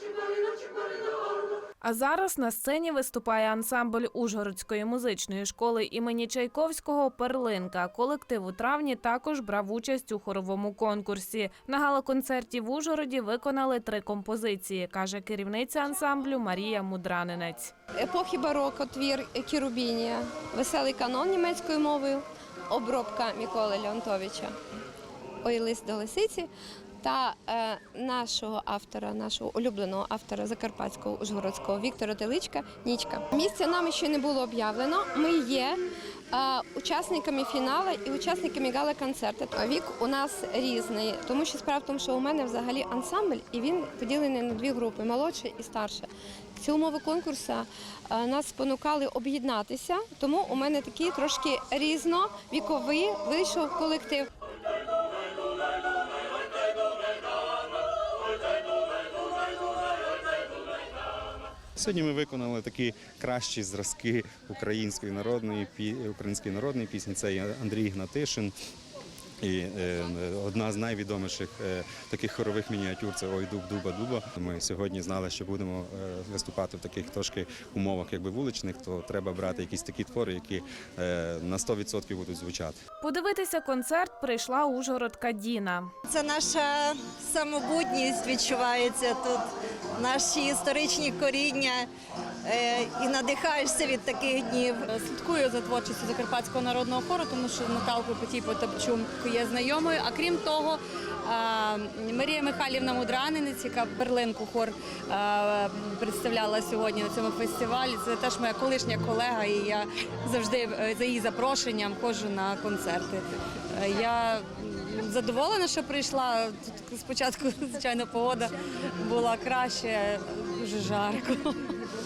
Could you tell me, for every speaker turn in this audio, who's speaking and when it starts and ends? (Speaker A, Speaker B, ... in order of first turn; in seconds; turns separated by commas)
Speaker A: 1.8-17.7, Speaker B: 18.0-24.6, Speaker B: 25.4-26.5, Speaker B: 27.0-35.8, Speaker B: 36.3-54.3, Speaker C: 61.8-68.5, Speaker C: 69.4-82.8, Speaker A: 83.0-85.9, Speaker D: 86.1-89.4, Speaker D: 90.0-91.9, Speaker D: 92.5-94.8, Speaker E: 94.9-121.8